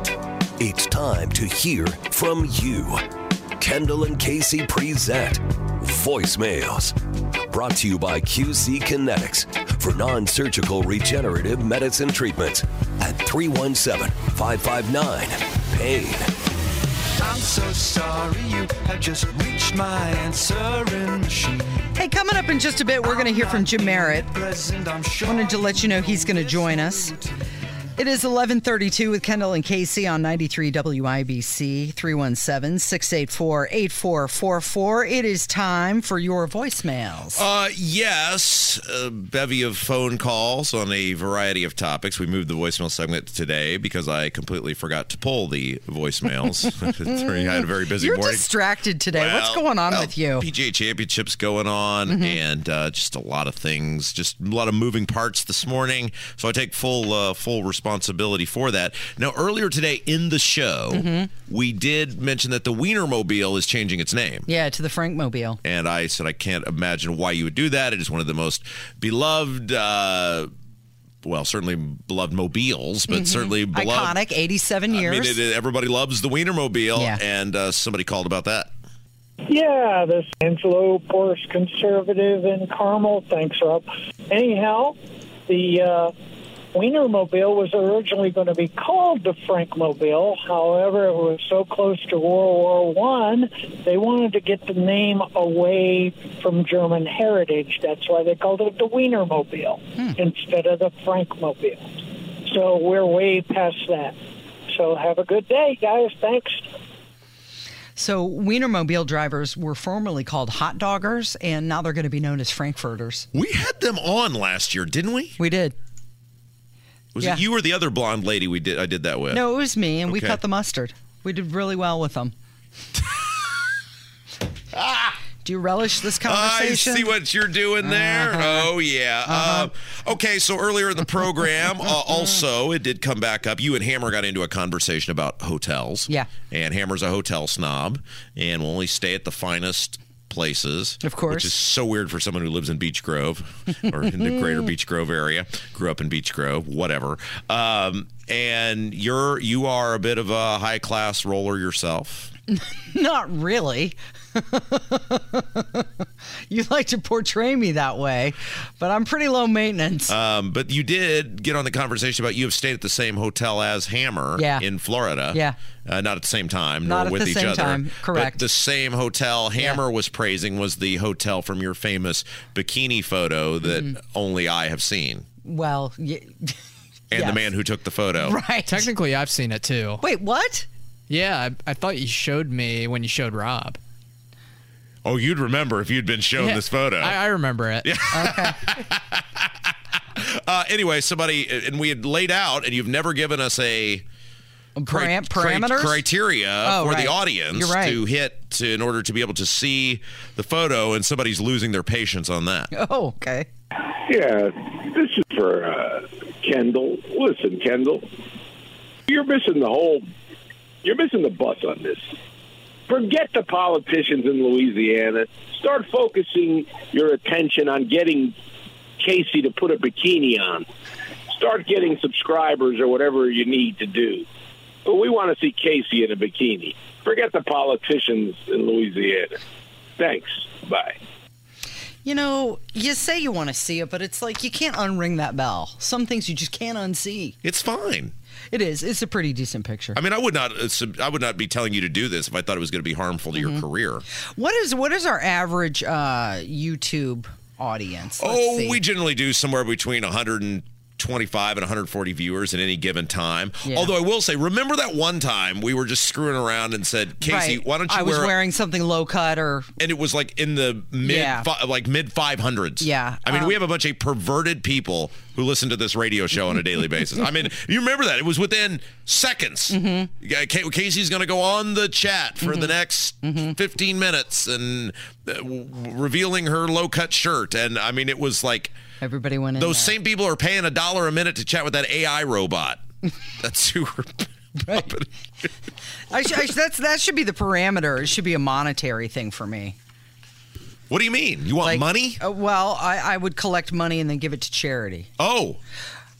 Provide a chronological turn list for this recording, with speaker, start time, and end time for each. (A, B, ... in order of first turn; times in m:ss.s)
0:00.6-0:03.0 A
0:03.6-0:06.9 A
0:07.5-0:16.3 A
0:17.8-0:21.4 B
0:21.9-0:24.3 C
0:25.2-0:27.2 C
0:28.0-0:37.4 C
0:37.3-0:48.5 D
0:48.0-0:50.5 C
0:49.1-1:04.5 D
0:52.1-0:52.4 C
1:00.9-1:01.3 C
1:04.5-1:05.6 C
1:05.6-1:10.5 D
1:11.2-1:14.2 D
1:13.1-1:15.4 C
1:14.9-1:18.7 D
1:19.5-1:25.0 E
1:25.5-1:26.1 E
1:26.7-1:41.8 E
1:42.4-1:44.2 E
1:44.7-1:46.6 E
1:48.0-1:53.3 C
1:53.3-1:55.4 D
1:55.4-1:55.8 C
1:57.1-1:59.4 D
1:59.3-2:02.3 C
2:00.1-2:00.4 D
2:04.7-2:05.2 D
2:05.4-2:07.1 C
2:06.2-2:32.3 D
2:07.8-2:08.7 C
2:09.2-2:09.7 C
2:21.0-2:21.5 C
2:32.9-2:35.9 C
2:36.5-2:40.1 C
2:40.1-2:55.2 D
2:44.4-2:44.6 C
2:46.8-2:48.4 C
2:55.4-2:56.5 C
2:57.1-2:58.4 D
2:57.1-2:57.5 C
2:58.2-2:58.9 C
2:58.6-3:00.0 F
3:00.0-3:00.7 C
3:01.1-3:03.8 F
3:05.0-3:07.2 D
3:06.5-3:07.9 F
3:07.8-3:09.5 D
3:08.1-3:08.6 C
3:10.2-3:14.0 D
3:14.8-3:16.0 C
3:14.9-3:22.7 D
3:16.6-3:18.0 C
3:22.7-3:23.5 C
3:24.0-3:28.1 G
3:29.1-3:30.1 G
3:30.8-3:32.0 G
3:32.9-3:38.3 G
3:39.0-3:40.7 G
3:41.3-3:44.2 G
3:44.8-3:49.4 G
3:50.0-3:51.0 G
3:52.0-3:57.4 C
3:57.4-3:58.1 D
3:58.5-4:00.0 C
3:59.9-4:04.0 D
4:03.4-4:03.6 C
4:04.4-4:08.8 C
4:08.2-4:18.3 D
4:13.6-4:13.9 C
4:17.2-4:19.7 C
4:19.8-4:38.7 D
4:21.0-4:21.5 C
4:22.8-4:23.6 C
4:29.7-4:30.1 C
4:32.4-4:32.7 C
4:33.2-4:33.5 C
4:39.0-4:39.9 C
4:39.5-4:42.8 D
4:43.4-4:45.1 D
4:44.6-4:44.9 C
4:46.1-4:49.8 C
4:50.9-4:52.2 D
4:51.6-4:55.1 C
4:55.2-4:55.6 D